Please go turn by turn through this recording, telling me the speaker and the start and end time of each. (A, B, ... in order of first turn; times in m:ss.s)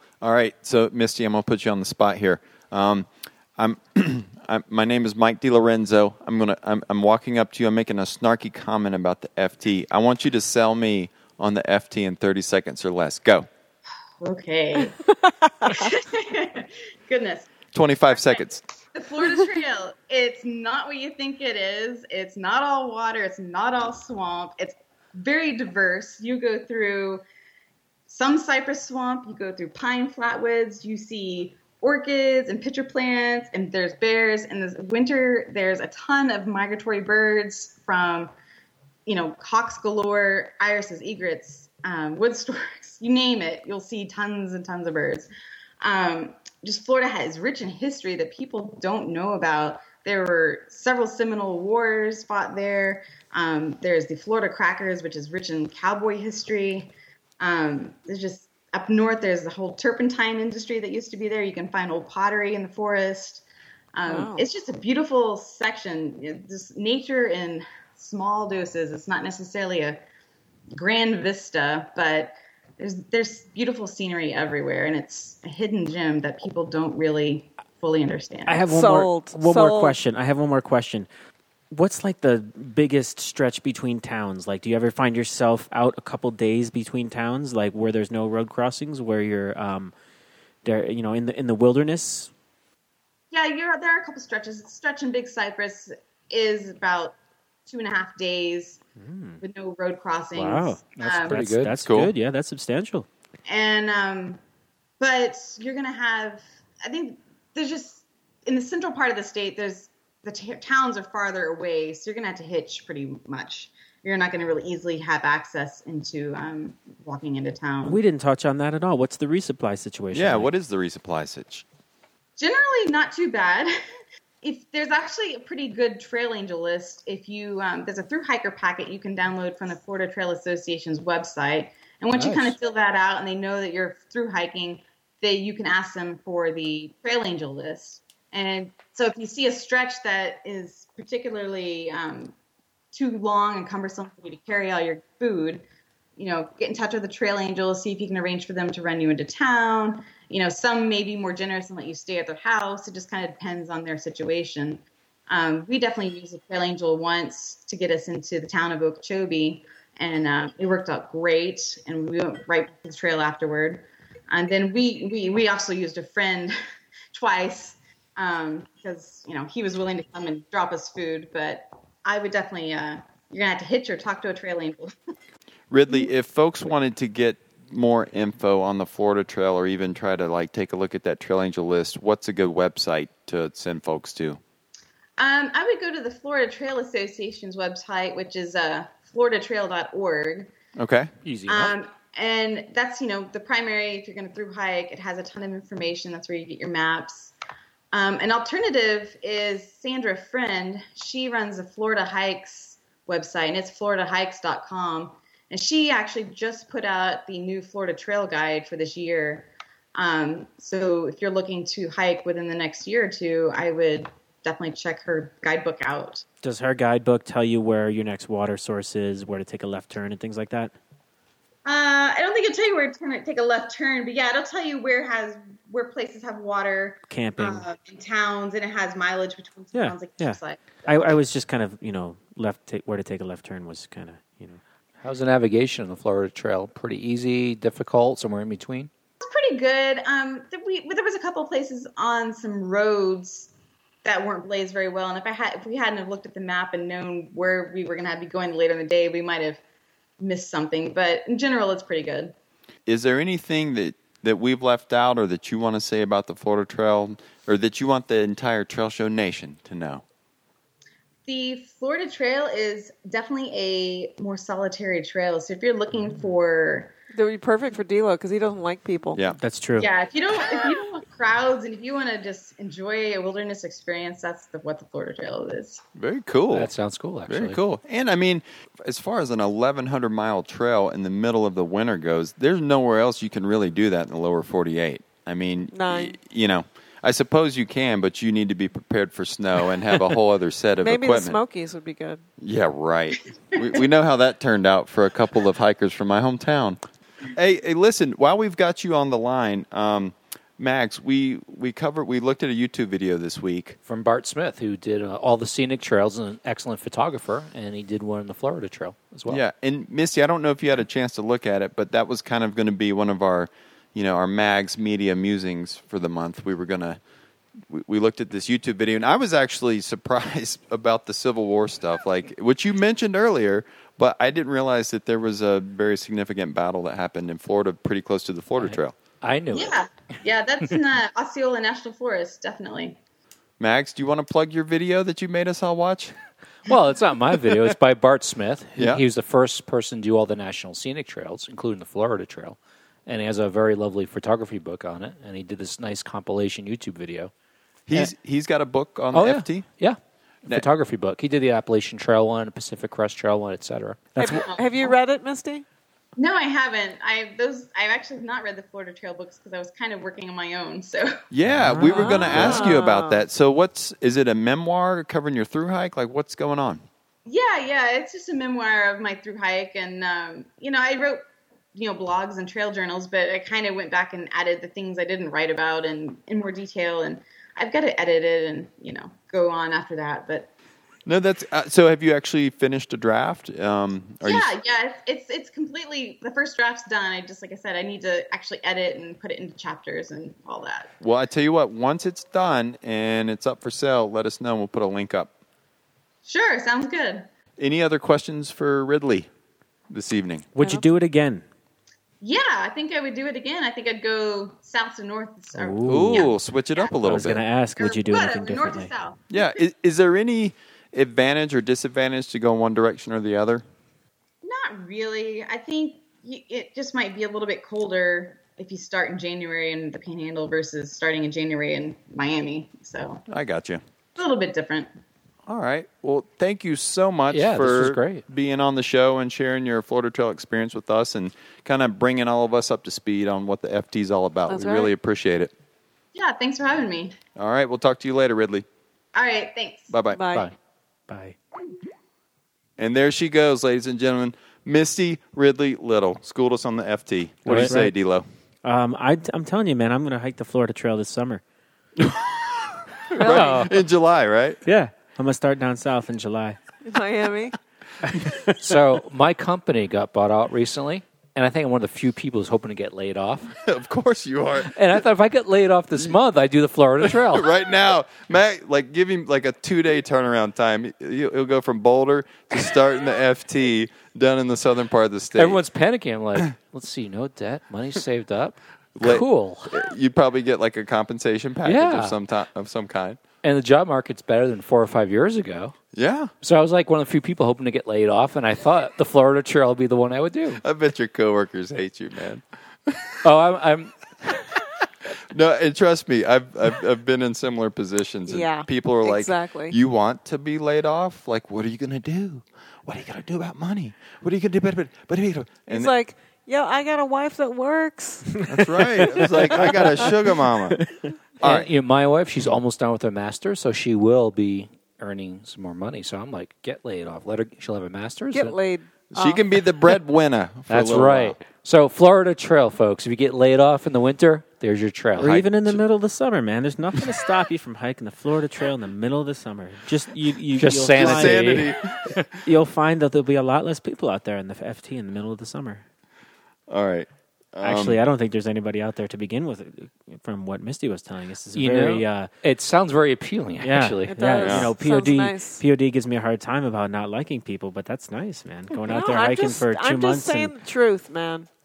0:00.2-0:13.5 A
0:14.2-0:15.0 B
0:15.6-0:15.9 C
0:15.7-0:17.5 B
0:17.7-0:18.6 A
0:18.9-0:27.2 B
0:28.1-0:38.3 B
0:39.0-0:45.3 B
0:45.8-1:10.0 B
1:04.0-1:04.5 C
1:10.7-1:18.6 B
1:18.5-1:21.1 D
1:18.7-1:20.0 C
1:21.7-1:29.9 D
1:30.6-1:32.3 D
1:33.3-1:37.2 B
1:37.7-1:38.8 B
1:39.0-1:39.4 D
1:39.4-1:41.4 B
1:40.3-1:43.1 D
1:41.0-1:41.8 E
1:41.8-1:42.1 A
1:43.4-1:44.4 B
1:45.0-1:58.0 B
1:57.8-2:00.5 D
2:00.1-2:01.6 A
2:02.4-2:03.7 B
2:04.4-2:22.3 B
2:12.2-2:12.6 E
2:22.9-2:25.6 B
2:26.2-2:46.5 B
2:47.1-2:54.9 B
2:55.7-3:04.4 A
3:05.2-3:10.5 B
3:10.8-3:11.1 A
3:11.2-3:11.7 E
3:11.5-3:17.3 B
3:17.9-3:36.2 B
3:36.4-3:40.7 D
3:41.6-3:50.8 B
3:47.1-3:47.6 D
3:49.7-3:54.6 D
3:55.0-3:58.9 E
3:59.2-4:03.5 B
4:04.0-4:09.6 B
4:10.2-4:12.3 B
4:12.9-4:20.0 A
4:21.2-4:26.9 B
4:27.1-4:29.2 C
4:29.4-4:29.9 D
4:29.8-4:35.8 B
4:36.0-4:36.7 A
4:36.5-4:37.6 E
4:37.3-4:51.4 A
4:45.7-4:46.2 C
4:50.8-4:52.2 C
4:52.4-4:56.8 A
4:57.3-5:03.8 A
5:03.8-5:09.4 E
5:09.3-5:17.0 A
5:17.7-5:29.0 A
5:28.6-5:29.8 E
5:29.5-5:33.0 B
5:33.6-5:36.1 A
5:36.6-5:47.3 E
5:38.8-5:39.0 A
5:47.9-5:49.6 A
5:49.1-5:54.0 E
5:54.1-5:54.9 D
5:54.2-5:55.6 C
5:56.2-6:01.2 B
6:01.3-6:06.8 A
6:01.5-6:02.7 D
6:01.9-6:03.2 C
6:07.2-6:11.2 B
6:11.7-6:20.5 B
6:21.0-6:24.5 A
6:24.2-6:30.9 B
6:31.0-6:35.3 A
6:36.2-6:37.3 B
6:37.6-6:39.3 A
6:39.9-6:40.5 A
6:40.6-6:41.4 D
6:40.6-6:40.9 C
6:42.2-6:46.9 B
6:45.5-6:46.3 D
6:45.8-6:47.4 A
6:47.0-6:48.9 D
6:47.8-6:49.6 B
6:49.3-6:53.6 A
6:54.4-7:03.2 B
7:03.3-7:03.8 A
7:04.2-7:04.9 B
7:05.5-7:15.5 A
7:07.3-7:08.2 E
7:14.5-7:14.9 C
7:16.1-7:17.2 B
7:17.4-7:18.6 A
7:19.1-7:19.9 B
7:19.9-7:20.2 A
7:20.1-7:20.5 C
7:21.1-7:21.4 D
7:22.8-7:28.2 A
7:27.4-7:27.8 E
7:27.5-7:27.9 D
7:28.6-7:31.4 D
7:32.0-7:34.6 A
7:33.1-7:33.8 C
7:33.2-7:33.7 E
7:34.6-7:36.6 D
7:36.8-7:37.6 C
7:38.0-7:38.5 D
7:38.6-7:43.5 E
7:43.6-7:44.7 A
7:44.7-7:47.5 E
7:47.0-7:55.6 A
7:55.3-7:59.8 E
7:59.0-8:03.2 A
8:01.6-8:02.2 E
8:03.4-8:05.7 E
8:05.9-8:06.3 A
8:06.4-8:10.6 E
8:10.6-8:13.2 A
8:13.2-8:13.9 E
8:15.3-8:25.9 A
8:18.3-8:19.8 C
8:25.7-8:28.5 C
8:28.4-8:30.8 A
8:28.5-8:29.7 D
8:29.7-8:30.0 C
8:30.7-8:31.1 D
8:31.4-8:31.7 A
8:31.4-8:38.6 E
8:38.3-8:39.4 C
8:39.1-8:41.4 A
8:40.7-8:45.4 E
8:45.2-8:51.7 D
8:45.2-8:45.8 A
8:50.6-8:51.7 E
8:50.9-8:52.4 A
8:52.4-8:55.8 D
8:56.7-8:58.0 A
8:57.6-9:02.3 D
9:01.5-9:04.4 E
9:03.6-9:10.5 D
9:04.2-9:05.6 C
9:04.4-9:04.7 A
9:08.7-9:11.5 C